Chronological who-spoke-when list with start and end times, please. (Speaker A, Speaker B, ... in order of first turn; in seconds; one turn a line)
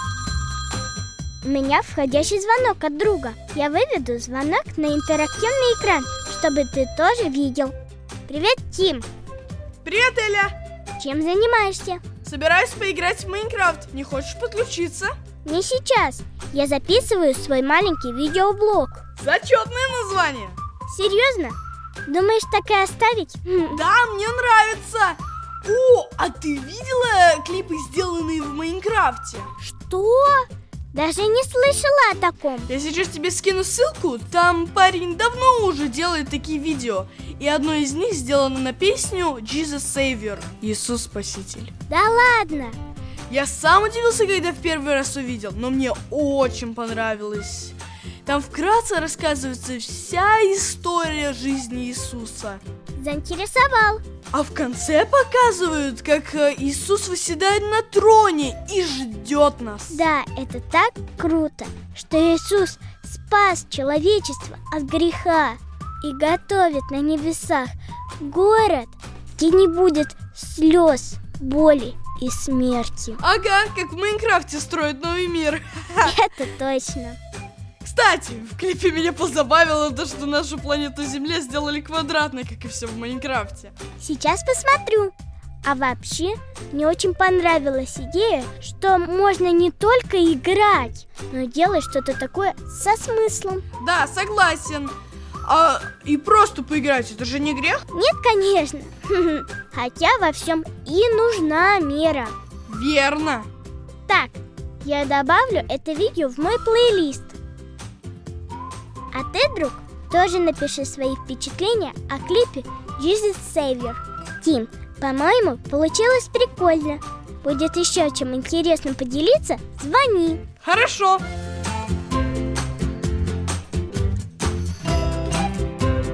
Speaker A: 1.4-7.7
Speaker A: 8.3-9.1
Speaker B: 9.8-10.6
Speaker A: 11.0-12.0
Speaker B: 12.2-15.2
Speaker A: 15.4-19.0
Speaker B: 19.2-20.6
Speaker A: 20.9-23.8
Speaker B: 23.7-29.5
Speaker A: 29.6-32.7
Speaker B: 32.7-41.7
Speaker A: 41.9-42.8
Speaker B: 43.3-52.6
Speaker A: 53.0-54.0
Speaker B: 54.3-60.0
Speaker A: 59.9-73.2
Speaker B: 73.2-76.2
Speaker A: 76.0-77.2
Speaker B: 77.8-83.8
Speaker A: 84.0-93.7
Speaker B: 93.8-97.9
Speaker A: 97.9-102.3
Speaker B: 102.7-103.5
Speaker A: 104.1-107.3
Speaker A: 109.1-120.4
Speaker B: 120.6-121.2